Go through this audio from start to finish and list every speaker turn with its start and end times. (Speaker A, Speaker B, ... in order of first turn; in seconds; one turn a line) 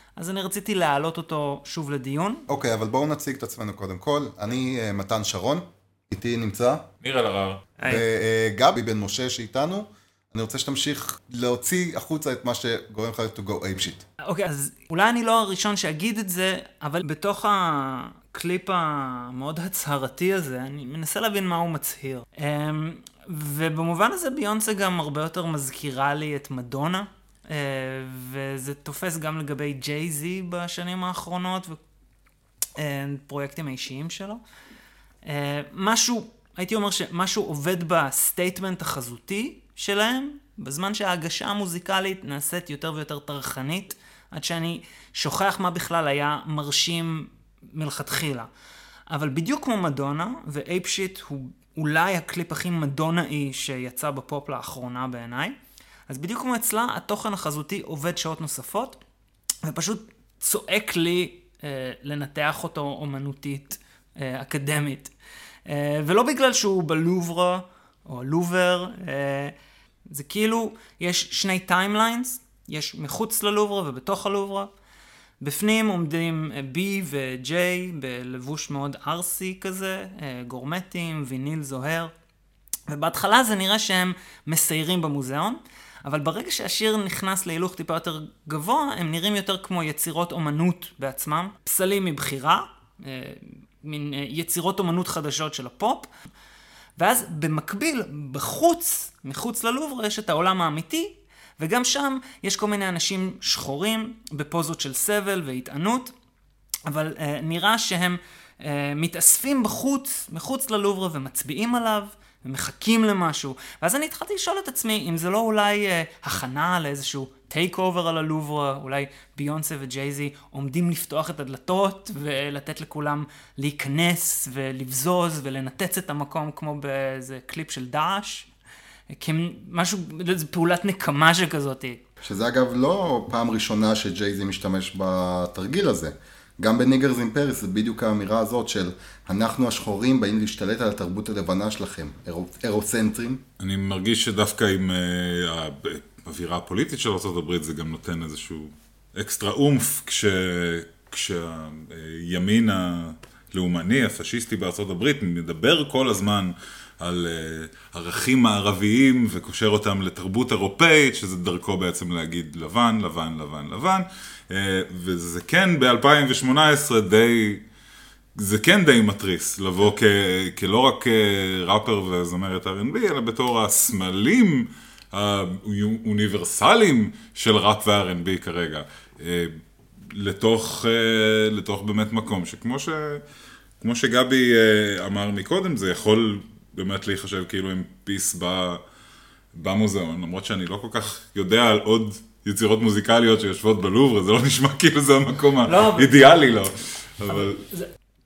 Speaker A: 0.2-2.5
Speaker B: 2.5-6.8
Speaker C: 7.0-7.6
Speaker A: 7.8-8.1
Speaker B: 7.9-14.0
Speaker A: 14.2-31.8
Speaker A: 32.8-34.4
Speaker A: 35.2-48.5
Speaker A: 49.1-55.6
Speaker A: 56.1-59.0
Speaker A: 59.7-65.1
Speaker A: 65.7-69.5
Speaker A: 70.1-74.7
Speaker A: 75.4-82.1
Speaker A: 82.9-96.1
Speaker A: 97.0-106.1
Speaker A: 106.9-128.5
Speaker A: 129.1-132.0
Speaker B: 132.2-143.4
Speaker C: 143.6-167.6
Speaker C: 168.4-179.5
Speaker C: 180.1-183.2
Speaker C: 183.8-188.8
Speaker C: 189.5-197.6
Speaker A: 195.7-196.7
Speaker A: 197.3-197.9